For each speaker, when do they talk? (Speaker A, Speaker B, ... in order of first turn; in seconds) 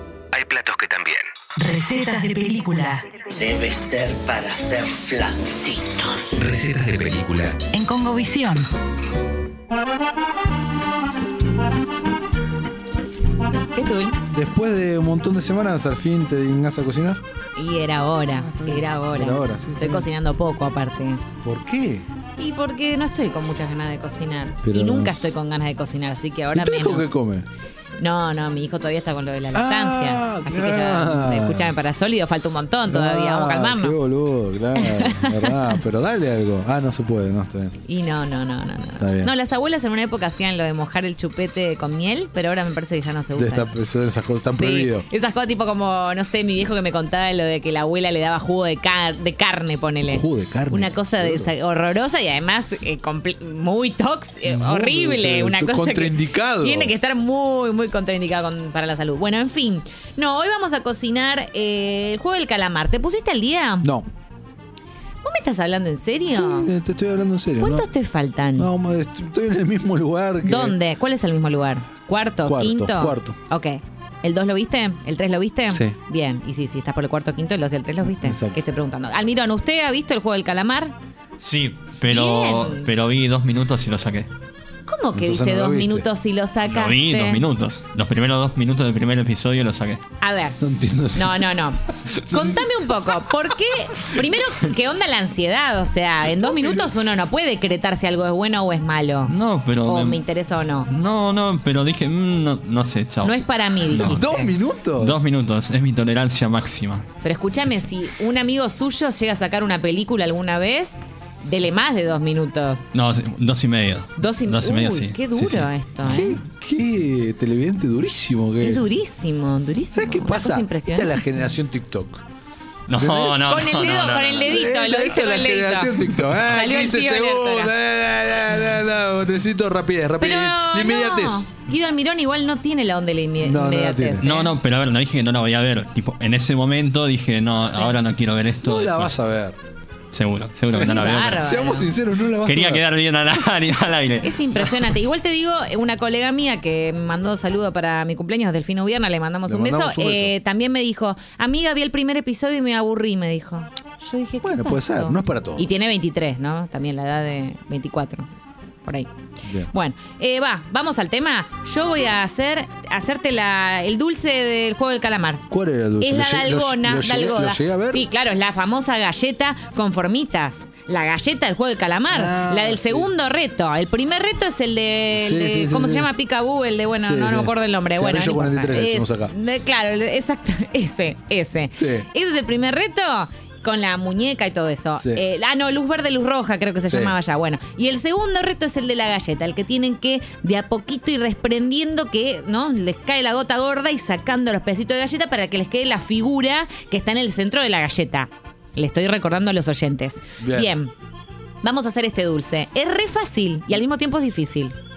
Speaker A: 0.3-1.3, 6.5-7.6
Speaker B: 1.6-3.1, 7.6-8.7
Speaker C: 3.3-6.5
Speaker D: 13.5-14.2, 17.6-21.2, 22.4-27.1, 28.0-34.0, 34.8-35.8, 37.9-43.8, 44.5-63.9, 65.2-66.7, 67.6-68.7, 70.4-80.9, 82.1-82.9, 84.9-87.4, 90.2-90.6, 91.1-100.9, 103.2-104.5, 107.2-112.9, 114.2-116.4, 118.6-121.5, 123.4-127.7, 130.2-134.5, 137.7-138.0, 140.7-141.9, 144.2-158.3, 158.8-159.1, 159.7-165.4, 166.0-200.9, 201.6-204.8
Speaker E: 14.3-17.2, 18.3-20.1, 21.4-22.1, 24.6-25.2, 26.5-27.5, 29.5-31.8, 32.9-37.8, 39.0-39.3, 43.4-45.1, 50.1-51.5, 54.5-57.0, 66.3-67.9, 68.6-70.8, 72.4-73.4, 75.7-76.0, 78.0-78.6, 85.1-86.1, 90.6-91.5, 92.1-92.7, 96.2-96.9, 104.0-105.2, 116.0-118.9, 119.9-122.2, 123.0-123.5, 124.4-131.5, 133.4-134.4, 138.6-139.6, 140.7-142.8, 149.5-150.3, 154.4-155.8, 159.4-159.7, 165.5-168.1, 172.1-173.1, 175.1-176.1, 177.0-179.3, 181.7-182.1, 185.0-185.2, 186.8-187.2, 200.4-200.7
Speaker F: 81.4-84.3, 86.6-90.0, 99.3-100.2, 100.9-104.3, 105.0-107.0, 112.9-116.4, 122.9-124.6, 134.2-139.2, 140.1-141.7, 142.4-145.0